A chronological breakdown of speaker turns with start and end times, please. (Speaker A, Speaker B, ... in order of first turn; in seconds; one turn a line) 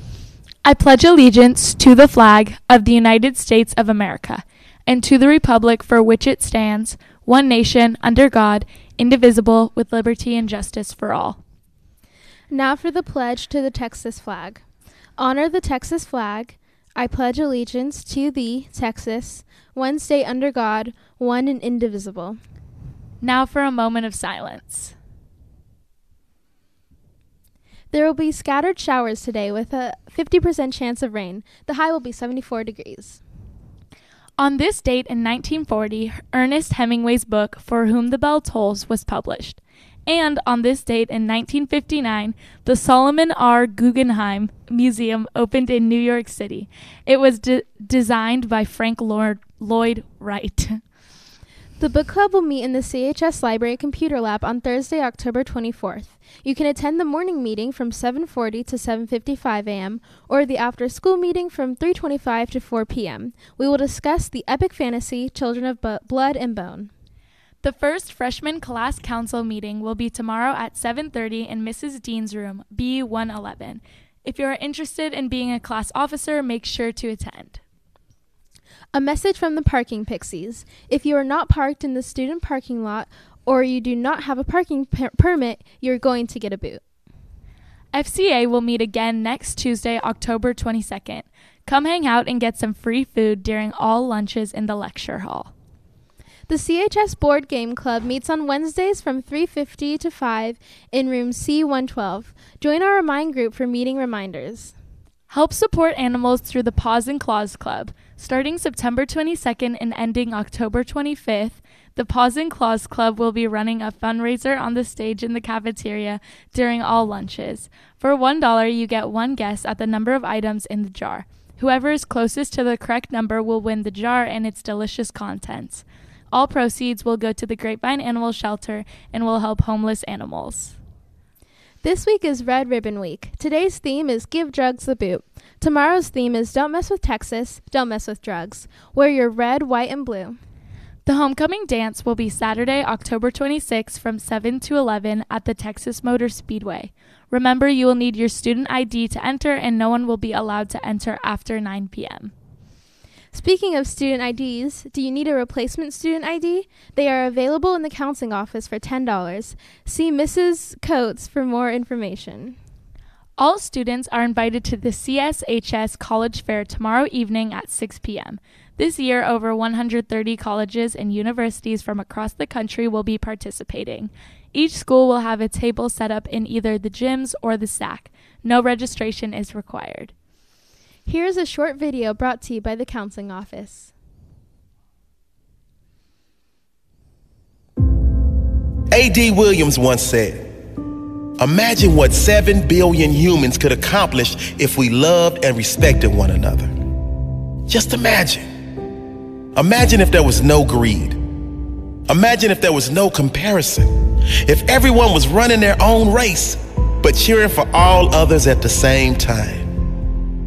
Speaker A: 0.7-11.4
Speaker B: 12.5-14.6
Speaker B: 15.2-22.4
Speaker A: 23.2-24.9
Speaker B: 27.9-33.2
Speaker A: 34.4-50.8
Speaker B: 51.8-66.9
Speaker A: 67.6-77.6
Speaker B: 78.9-86.8
Speaker A: 87.9-95.5
Speaker B: 96.5-104.8
Speaker A: 105.3-130.8
Speaker B: 131.8-140.4
Speaker A: 141.1-152.3
Speaker B: 153.3-162.6
Speaker A: 163.4-180.1
Speaker B: 181.1-183.9
Speaker C: 188.9-190.5
Speaker C: 191.4-196.7
Speaker C: 197.7-198.5
Speaker C: 199.6-201.2
Speaker C: 202.1-209.7